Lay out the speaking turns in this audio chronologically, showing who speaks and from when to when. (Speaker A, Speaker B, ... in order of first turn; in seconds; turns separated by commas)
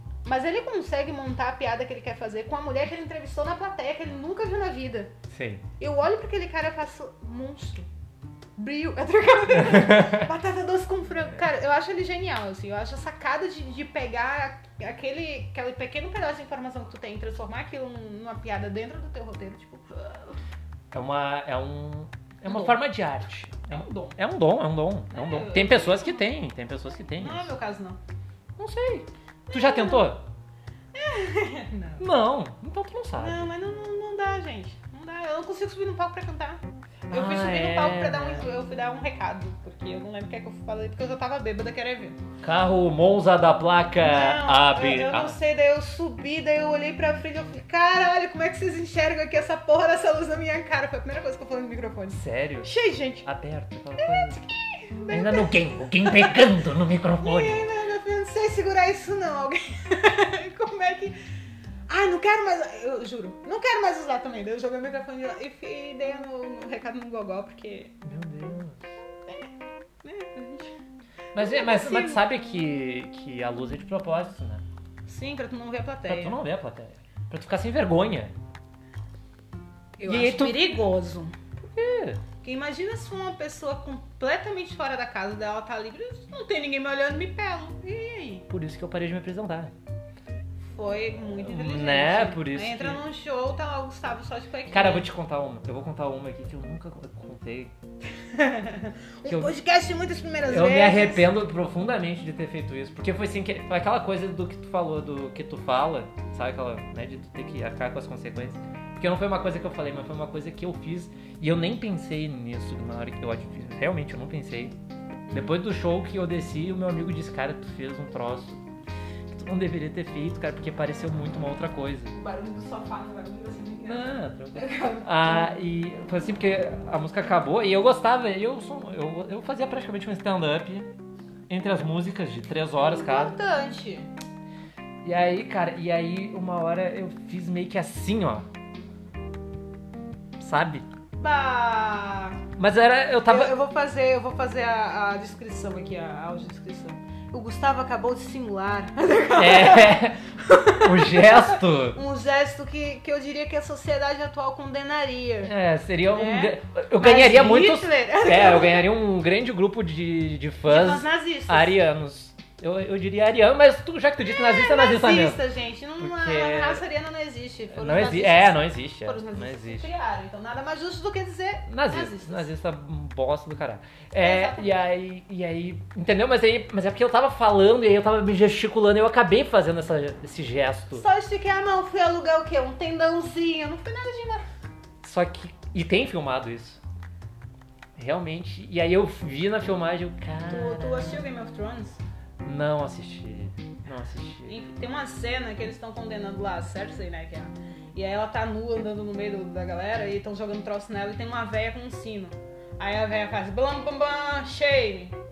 Speaker A: 0.2-5.1, Speaker B: 5.3-5.7, Speaker A: 5.8-7.9, Speaker A: 8.6-20.0, Speaker B: 9.6-10.3, Speaker B: 20.9-27.5, Speaker A: 22.4-22.8, Speaker A: 23.7-24.2, Speaker A: 25.1-26.2, Speaker A: 27.2-28.0, Speaker B: 28.6-30.2, Speaker A: 29.5-30.1, Speaker A: 30.9-32.1, Speaker B: 32.0-33.5, Speaker A: 33.2-42.2, Speaker B: 37.1-38.5, Speaker B: 42.4-45.4, Speaker A: 44.0-53.2, Speaker B: 52.1-52.7, Speaker B: 53.2-54.4, Speaker A: 54.0-56.6, Speaker B: 55.1-57.6, Speaker A: 57.2-61.1, Speaker A: 61.9-68.0, Speaker B: 68.0-68.8, Speaker A: 69.0-69.5, Speaker A: 70.0-70.7, Speaker A: 71.3-72.2, Speaker B: 71.3-74.6, Speaker A: 75.0-76.4, Speaker B: 76.1-78.3, Speaker A: 80.0-81.4, Speaker B: 80.0-80.8, Speaker B: 81.6-82.2, Speaker A: 82.4-88.5, Speaker B: 88.5-89.7, Speaker A: 90.7-95.1, Speaker B: 91.2-93.0, Speaker B: 94.7-97.7, Speaker A: 98.2-101.3, Speaker B: 99.2-99.5, Speaker B: 100.5-114.8, Speaker A: 115.3-115.5, Speaker B: 115.3-118.6, Speaker B: 119.3-122.1, Speaker A: 122.1-125.5, Speaker B: 123.8-130.9, Speaker B: 131.5-133.4, Speaker A: 132.8-134.1, Speaker B: 135.0-138.5, Speaker B: 140.4-140.9, Speaker A: 141.2-142.4, Speaker B: 142.6-143.5, Speaker A: 143.2-155.5, Speaker B: 149.3-152.0, Speaker B: 155.4-165.4, Speaker A: 156.1-158.9, Speaker A: 160.7-161.8, Speaker A: 164.2-172.5, Speaker B: 166.0-166.8, Speaker B: 167.7-169.9, Speaker B: 171.7-181.0, Speaker A: 174.2-174.8, Speaker A: 180.9-184.4, Speaker B: 185.0-186.8, Speaker B: 187.9-191.3, Speaker A: 190.4-192.0, Speaker B: 192.4-194.6, Speaker A: 194.4-205.2